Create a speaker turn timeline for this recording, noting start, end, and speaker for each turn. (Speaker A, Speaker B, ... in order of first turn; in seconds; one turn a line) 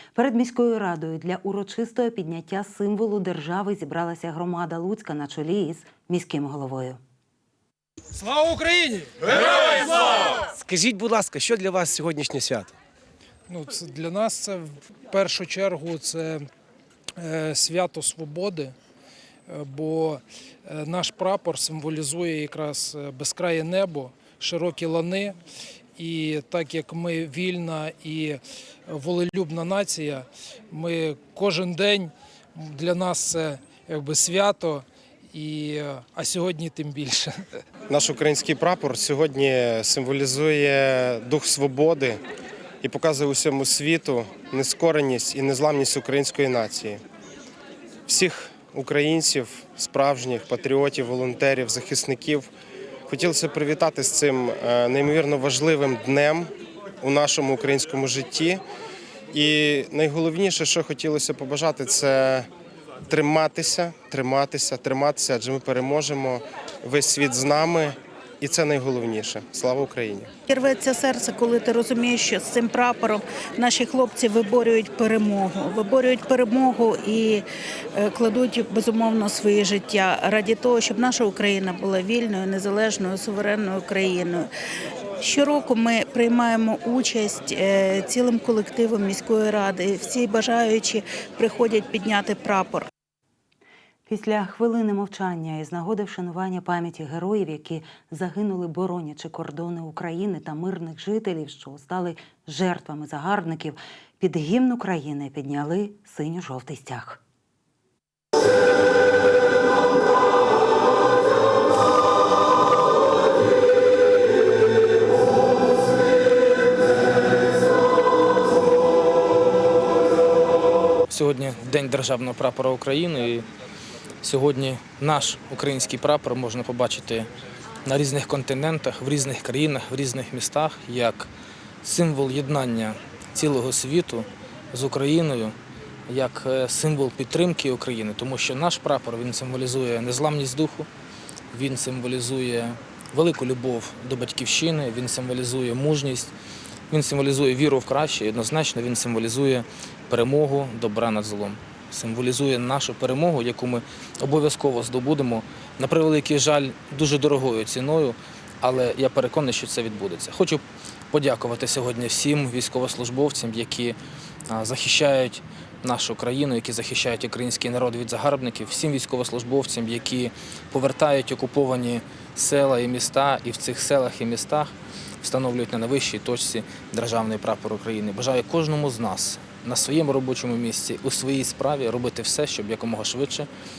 Speaker A: 0.1-7.0
Speaker B: 8.1-10.1
Speaker C: 10.2-12.7
Speaker B: 13.5-16.5
Speaker B: 17.2-18.7
Speaker B: 19.5-25.4
Speaker B: 26.0-37.4
Speaker D: 37.9-42.2
Speaker D: 42.8-47.0
Speaker D: 48.1-52.5
Speaker D: 53.1-56.5
Speaker D: 57.0-58.6
Speaker D: 59.3-62.5
Speaker D: 63.1-70.3
Speaker E: 70.5-84.5
Speaker E: 85.2-92.9
Speaker A: 94.1-107.2
Speaker F: 121.1-123.5
Speaker F: 124.2-127.3
Speaker F: 127.8-131.3
Speaker F: 131.8-135.6
Speaker F: 136.1-140.9
Speaker F: 141.5-146.3
Speaker F: 146.9-164.0
Speaker F: 164.5-183.5